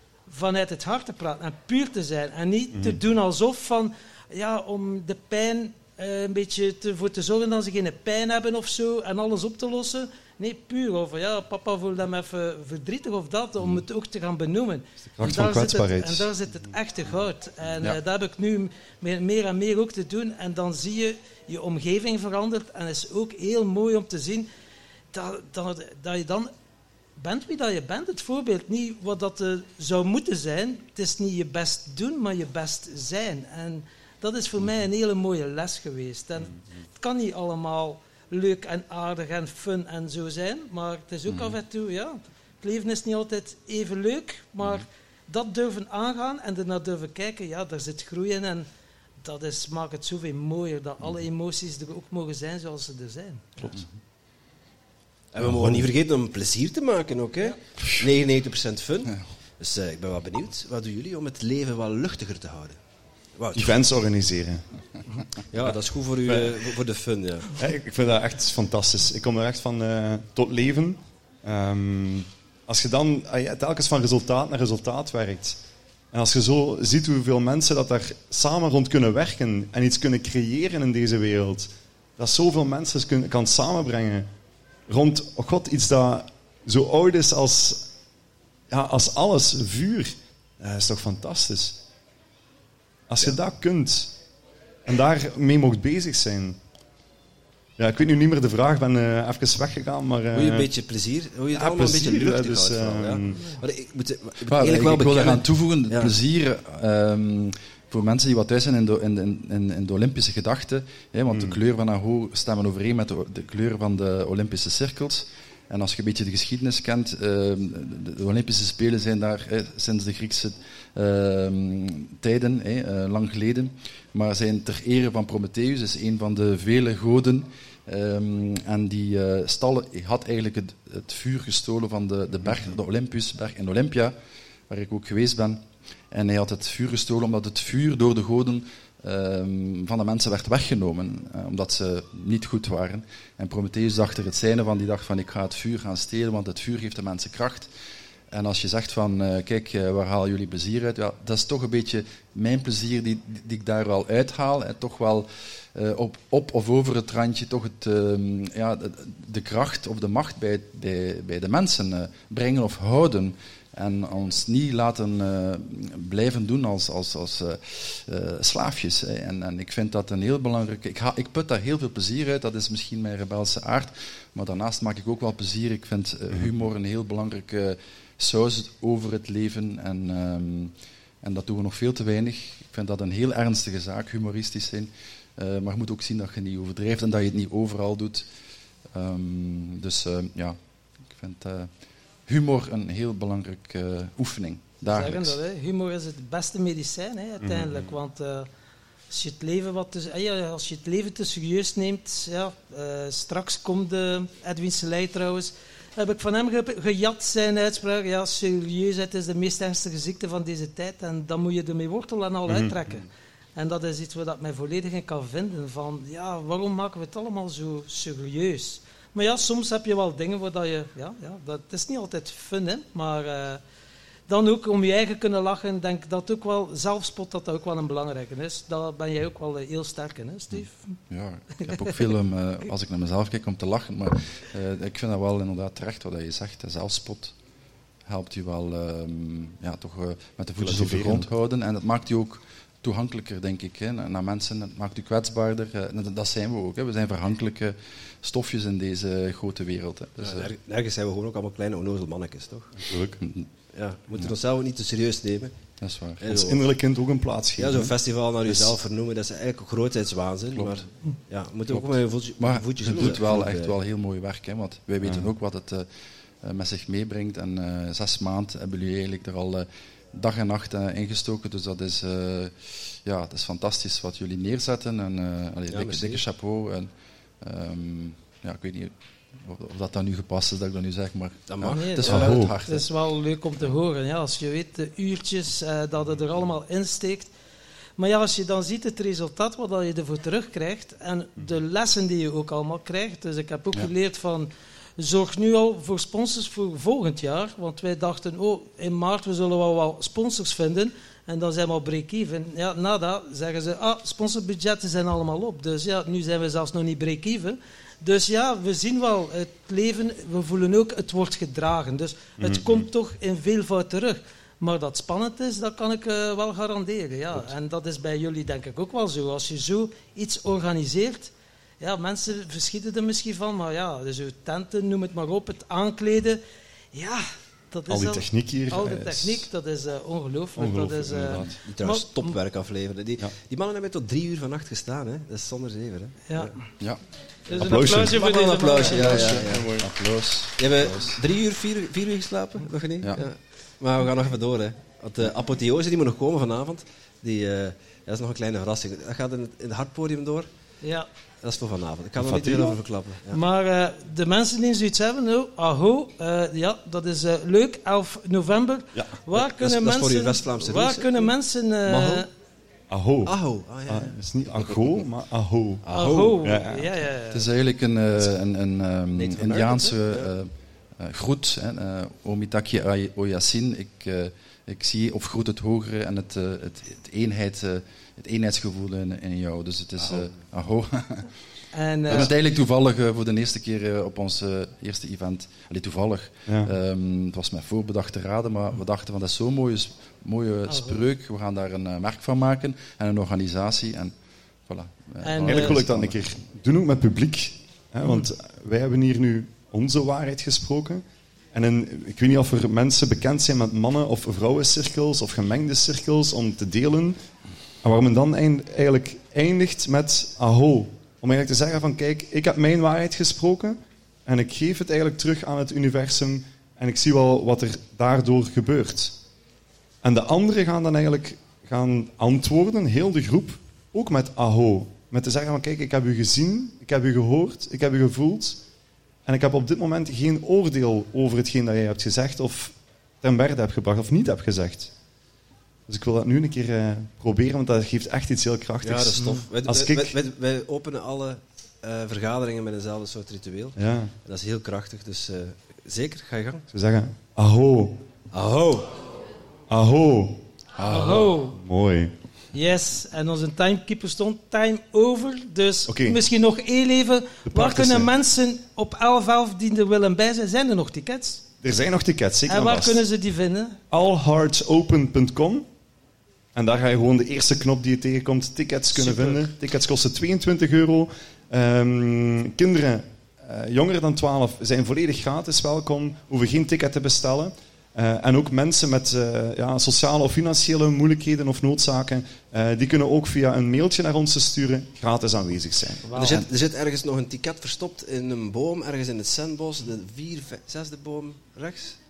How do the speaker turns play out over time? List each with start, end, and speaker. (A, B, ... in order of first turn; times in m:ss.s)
0:00.3-0:24.5 A
0:02.7-0:03.0 B
0:15.2-0:16.3 B
0:25.1-0:26.5 A
0:27.2-0:48.7 A
0:49.2-0:53.6 A
0:55.3-1:02.8 C
0:55.4-0:55.9 D
1:03.4-1:03.8 C
1:03.6-1:04.6 B
1:05.5-1:07.5 C
1:06.3-1:06.6 B
1:07.6-1:15.6 B
1:16.1-1:24.3 B
1:24.9-1:27.9 B
1:28.7-1:31.8 B
1:33.1-1:34.2 B
1:34.8-1:36.6 B
1:37.8-1:40.7 B
1:40.3-1:46.1 C
1:41.5-1:43.5 B
1:44.5-2:14.1 D
1:51.3-1:51.6 B
2:14.7-2:27.7 D
2:28.3-3:08.2 D
3:08.9-3:10.6 D
3:11.1-3:11.7 D
3:12.3-3:15.4 D
3:14.9-3:18.5 A
3:19.1-3:43.6 A
3:32.5-3:32.8 B
3:44.3-3:51.0 A
3:51.1-3:57.4 D
3:51.6-3:52.0 A
3:58.1-4:10.5 D
4:00.6-4:01.3 B
4:10.2-4:12.8 C
4:12.8-4:13.2 B
4:13.2-4:13.5 D
4:13.7-4:15.5 C
4:15.8-4:16.3 D
4:16.2-4:16.7 C
4:16.3-4:17.9 B
4:17.6-4:23.8 C
4:18.5-4:18.8 B
4:20.5-4:20.8 D
4:21.7-4:25.9 D
4:25.0-4:25.3 B
4:26.4-4:36.9 D
4:35.7-4:36.2 C
4:37.4-4:42.9 D
4:41.5-4:42.4 C
4:41.6-4:47.3 A
4:42.1-4:42.6 B
4:48.0-5:26.4 A
5:12.4-5:12.9 B
5:26.9-5:32.4 A
5:27.9-5:29.5 B
5:30.6-5:31.5 B
5:31.6-5:36.6 C
5:36.3-5:36.6 A
5:37.5-5:39.4 A
5:37.5-5:38.2 B
5:37.6-5:39.7 C
5:38.9-5:39.9 B
5:38.9-5:41.2 D
5:40.6-5:50.5 C
5:50.8-5:51.1 A
5:51.4-5:53.4 C
5:52.2-5:52.8 B
5:53.3-6:02.3 A
5:59.3-6:01.3 C
6:01.9-6:02.3 C
6:02.9-6:03.3 B
6:03.2-6:05.0 C
6:03.9-6:05.9 B
6:05.8-6:06.4 C
6:05.9-6:07.4 A
6:06.4-6:07.0 B
6:07.3-6:21.3 D
6:09.2-6:10.3 C
6:21.7-6:22.3 A
6:22.1-6:34.2 D
6:26.5-6:26.7 B
6:30.7-6:31.0 A
6:34.7-6:36.2 D
6:35.2-6:35.8 A
6:35.4-6:47.2 B
6:47.8-6:59.2 B
7:00.0-7:08.6 B
7:09.2-7:14.9 B
7:15.9-7:20.2 B
7:18.8-7:26.6 C
7:23.8-7:24.1 B
7:26.7-7:28.0 B
7:28.3-7:29.0 C
7:29.7-7:32.1 B
7:30.8-7:31.6 A
7:32.5-7:41.4 A
7:35.9-7:36.2 B
7:37.5-7:38.1 B
7:41.6-7:43.0 B
7:42.5-7:43.8 A
7:43.9-7:45.7 B
7:46.5-8:06.1 B
7:49.0-7:49.5 A
8:06.0-8:06.4 A
8:06.2-8:12.0 C